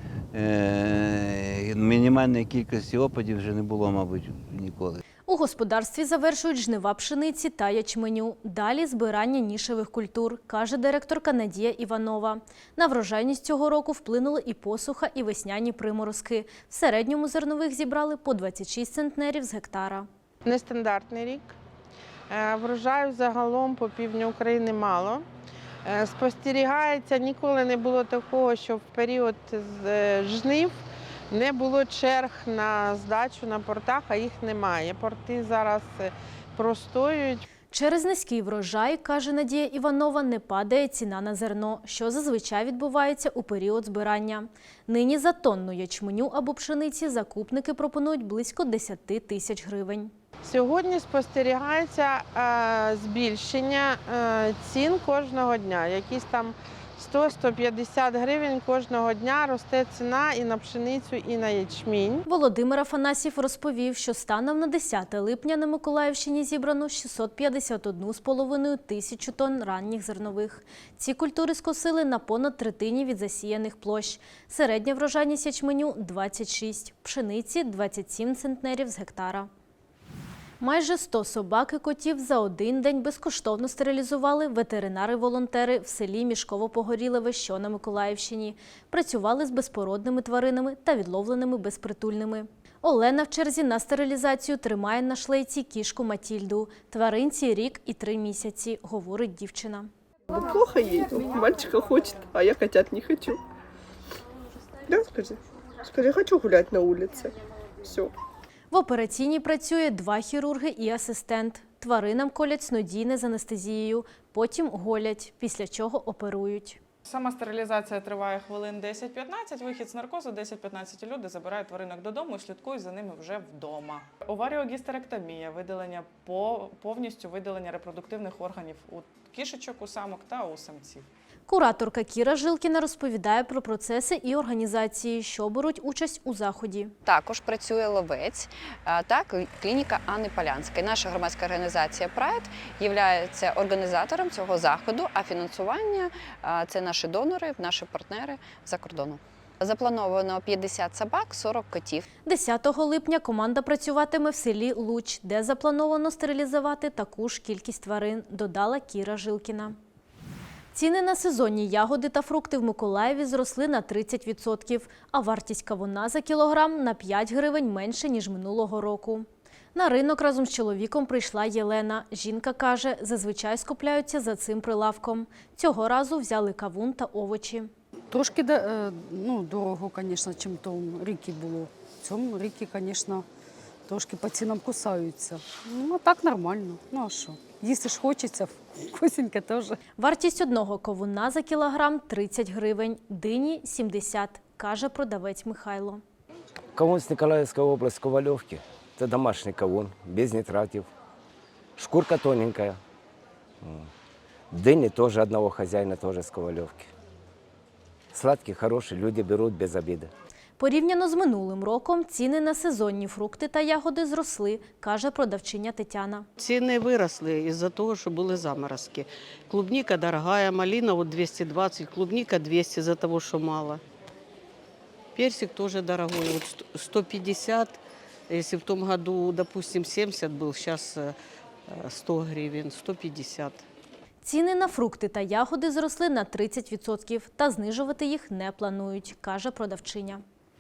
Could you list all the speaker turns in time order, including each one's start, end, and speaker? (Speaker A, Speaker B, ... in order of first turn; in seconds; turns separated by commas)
Speaker A: 0.3-5.0, Speaker B: 5.3-20.1, Speaker C: 20.4-21.5, Speaker C: 22.3-25.2, Speaker C: 25.8-37.4, Speaker B: 37.7-50.1, Speaker C: 50.4-62.2, Speaker B: 62.2-79.5, Speaker B: 80.6-99.9, Speaker D: 100.3-103.3, Speaker D: 104.9-105.4, Speaker D: 105.9-107.3, Speaker B: 108.7-116.8, Speaker E: 117.1-131.1, Speaker B: 131.5-136.9, Speaker F: 137.1-152.1, Speaker B: 152.2-159.8, Speaker B: 160.7-177.7, Speaker G: 178.1-183.2, Speaker G: 183.9-189.8, Speaker B: 190.0-196.0, Speaker H: 196.7-200.9, Speaker H: 201.8-202.8, Speaker H: 203.6-203.9, Speaker H: 204.5-206.9, Speaker H: 208.1-210.1, Speaker B: 210.6-216.3, Speaker I: 216.4-223.8, Speaker I: 225.2-227.8, Speaker I: 228.3-231.1, Speaker I: 231.8-233.6, Speaker B: 234.2-240.2